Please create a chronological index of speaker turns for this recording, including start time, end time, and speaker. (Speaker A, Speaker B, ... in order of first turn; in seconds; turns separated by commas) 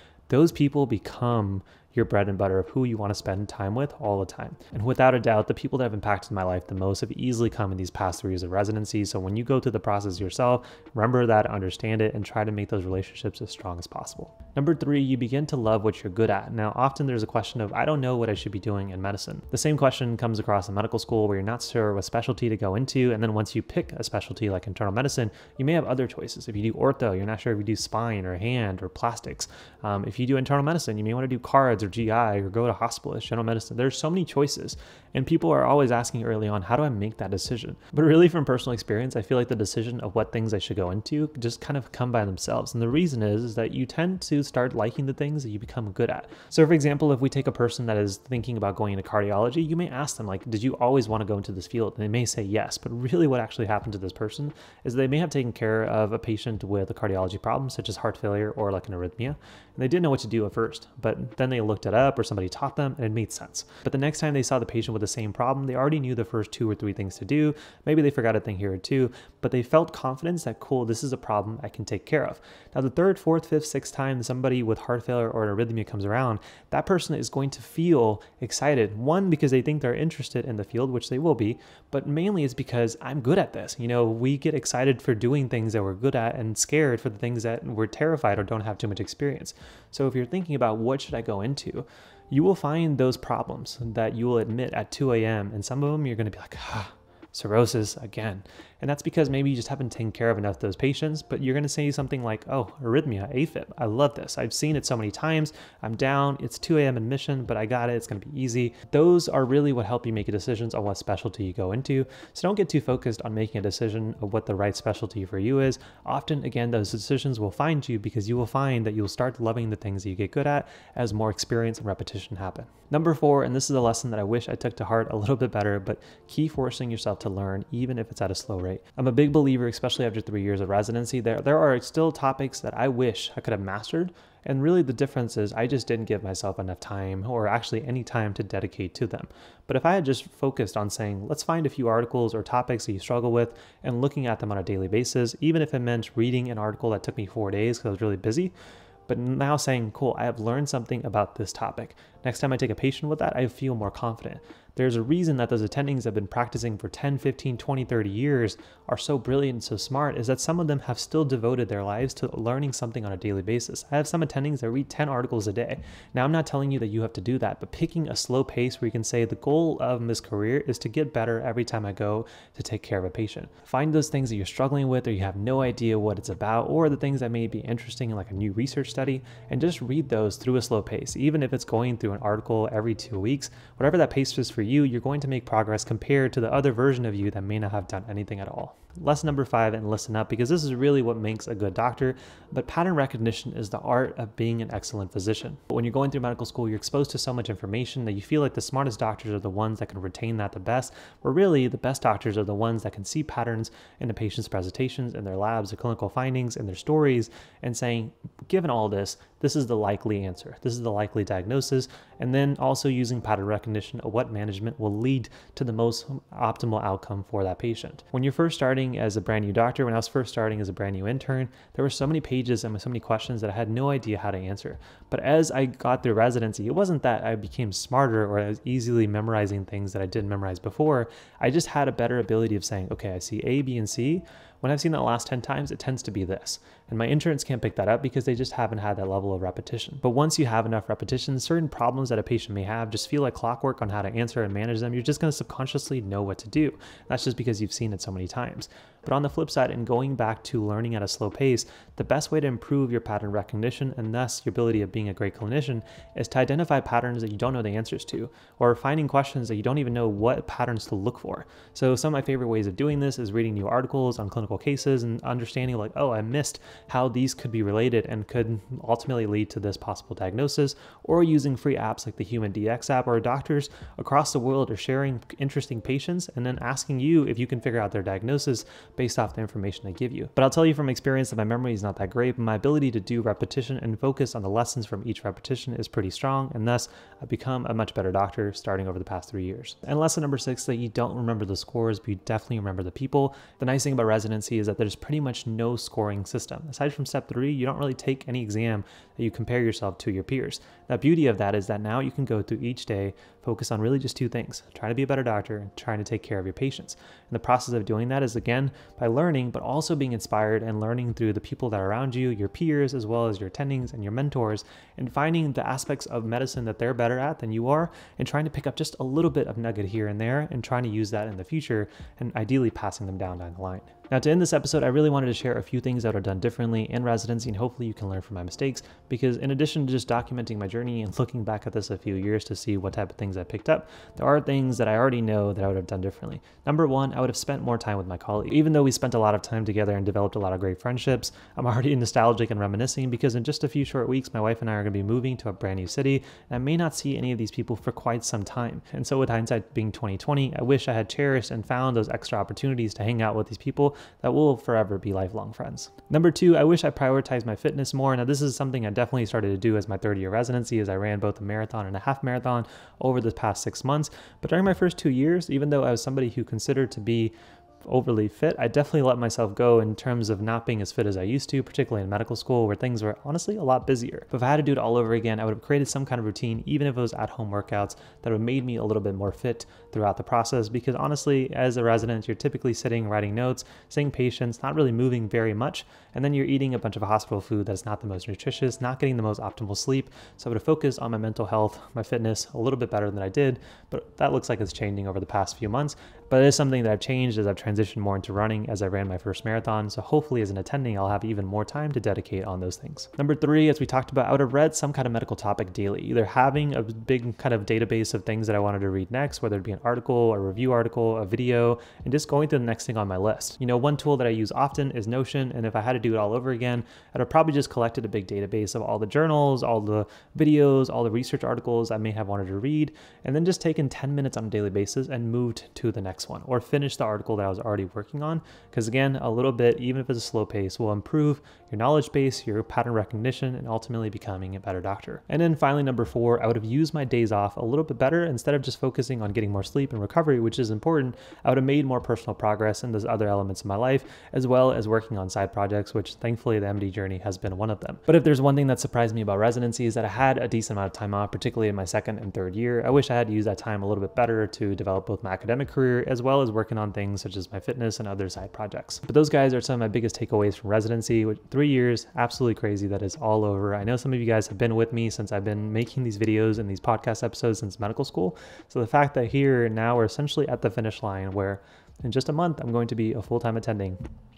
Speaker A: 0.3-148.5, Speaker A: 149.1-474.0